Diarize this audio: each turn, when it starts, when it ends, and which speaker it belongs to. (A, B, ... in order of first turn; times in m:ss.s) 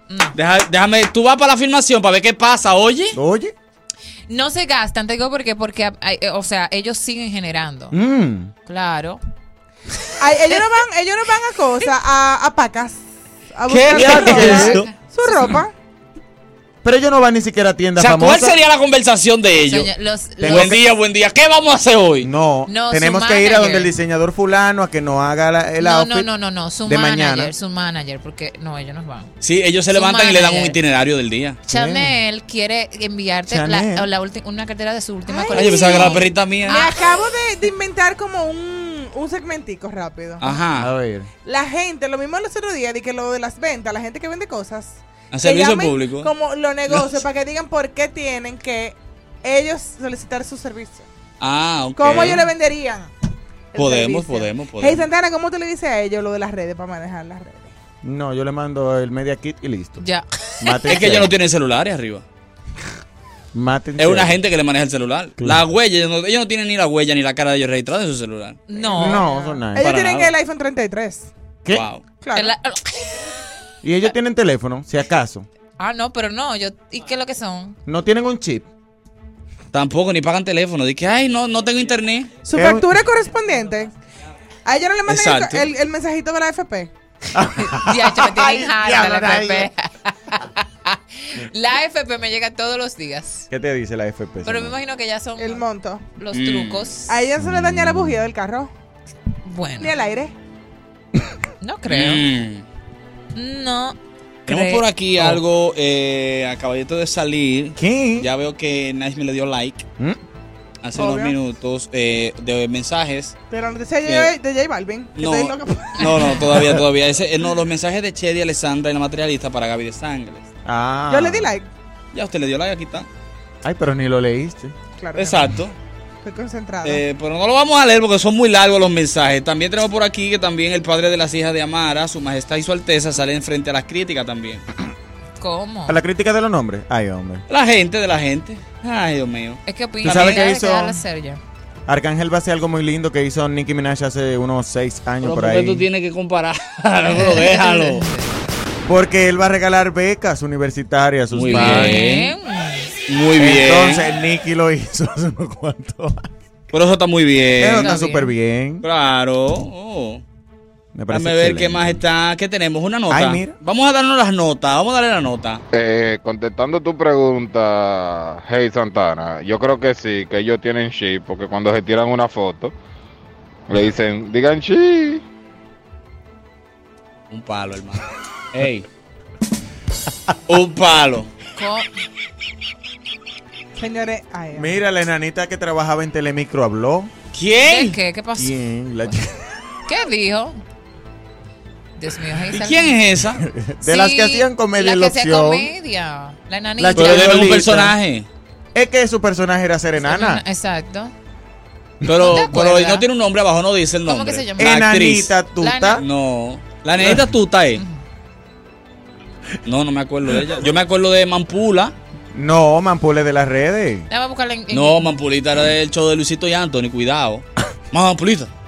0:00.1-0:00.4 A
0:00.3-0:03.2 B
0:03.1-0:03.5 C
0:04.3-0:08.0 A
0:07.9-0:08.5 C
0:08.7-0:09.2 A
0:10.2-0:15.7 D
0:13.7-0:14.9 B
0:13.9-0:14.8 C
0:14.4-0:14.9 A
0:16.8-0:18.6 C
0:18.0-0:19.9 B
0:19.6-0:20.8 A
0:20.4-0:20.8 C
0:20.4-0:22.3 B
0:22.2-0:26.3 C
0:22.7-0:23.9 A
0:25.8-0:29.3 A
0:26.9-0:27.5 C
0:29.4-0:31.6 B
0:29.9-0:30.8 A
0:31.7-0:32.2 C
0:31.7-0:36.9 A
0:33.5-0:34.1 C
0:35.3-0:40.5 D
0:35.5-0:36.9 B
0:40.4-0:40.9 B
0:40.8-0:41.3 C
0:41.4-0:51.1 D
0:45.3-0:46.3 B
0:46.9-0:47.2 B
0:51.4-0:52.5 B
0:52.0-0:53.1 D
0:53.7-0:57.7 D
0:53.8-0:55.1 B
0:58.0-1:00.0 C
1:00.0-1:00.9 A
1:00.6-1:01.3 C
1:00.9-1:02.2 B
1:03.5-1:04.4 C
1:04.0-1:08.6 B
1:08.7-1:09.5 A
1:08.8-1:11.3 D
1:09.0-1:09.9 C
1:09.8-1:10.3 B
1:11.7-1:12.0 B
1:12.2-1:12.5 D
1:12.3-1:13.2 A
1:13.8-1:15.5 C
1:15.8-1:17.8 A
1:17.9-1:18.7 C
1:19.7-1:22.3 B
1:22.5-1:23.9 D
1:22.5-1:22.9 C
1:24.6-1:26.9 D
1:25.1-1:25.7 B
1:27.3-1:29.7 C
1:27.6-1:33.5 A
1:33.5-1:34.8 C
1:34.4-1:37.1 A
1:35.4-1:36.0 D
1:36.3-1:36.9 B
1:37.1-1:38.7 D
1:37.4-1:38.2 C
1:39.4-1:39.9 A
1:39.8-1:40.4 D
1:41.6-1:42.2 A
1:41.9-1:42.6 B
1:43.4-1:44.8 A
1:44.5-1:49.9 B
1:47.8-1:48.3 C
1:50.8-1:53.4 B
1:51.0-1:51.4 D
1:53.5-1:56.5 D
1:54.0-1:54.3 B
1:55.2-2:00.4 B
1:56.5-1:56.8 C
2:00.6-2:01.5 C
2:01.1-2:01.7 D
2:02.1-2:03.1 B
2:03.6-2:04.7 C
2:05.0-2:05.5 D
2:05.2-2:05.8 B
2:06.2-2:07.0 D
2:06.8-2:14.6 B
2:15.4-2:16.0 A
2:15.9-2:17.4 C
2:17.5-2:20.4 B
2:19.7-2:21.4 A
2:20.0-2:21.0 C
2:21.9-2:25.8 C
2:25.2-2:28.1 B
2:27.1-2:28.4 A
2:28.8-2:32.1 C
2:31.3-2:32.4 B
2:31.5-2:32.9 A
2:33.1-2:34.0 B
2:33.4-2:36.3 C
2:36.7-2:37.9 B
2:37.6-2:38.8 C
2:37.8-2:38.3 A
2:38.8-2:40.2 B
2:40.9-2:42.0 C
2:41.1-2:45.6 B
2:43.1-2:43.6 C
2:45.7-2:52.7 E
2:53.7-2:55.2 E
2:57.3-2:58.9 B
3:00.5-3:01.3 B
3:01.6-3:01.9 A
3:03.8-3:04.8 D
3:04.5-3:07.1 C
3:07.3-3:08.0 B
3:07.6-3:08.6 A
3:08.4-3:09.3 C
3:09.9-3:10.6 A
3:12.0-3:13.0 A
3:12.5-3:13.4 B
3:13.4-3:15.7 C
3:13.8-3:17.6 A
3:16.8-3:18.0 C
3:17.0-3:18.3 B
3:18.8-3:20.4 C
3:20.0-3:21.1 A
3:22.0-3:25.3 B
3:22.1-3:23.0 A
3:24.1-3:24.8 A
3:24.6-3:26.0 C
3:25.6-3:26.0 A
3:26.0-3:27.8 B
3:29.6-3:32.0 B
3:32.3-3:34.1 C
3:34.1-3:35.1 A
3:34.7-3:38.5 B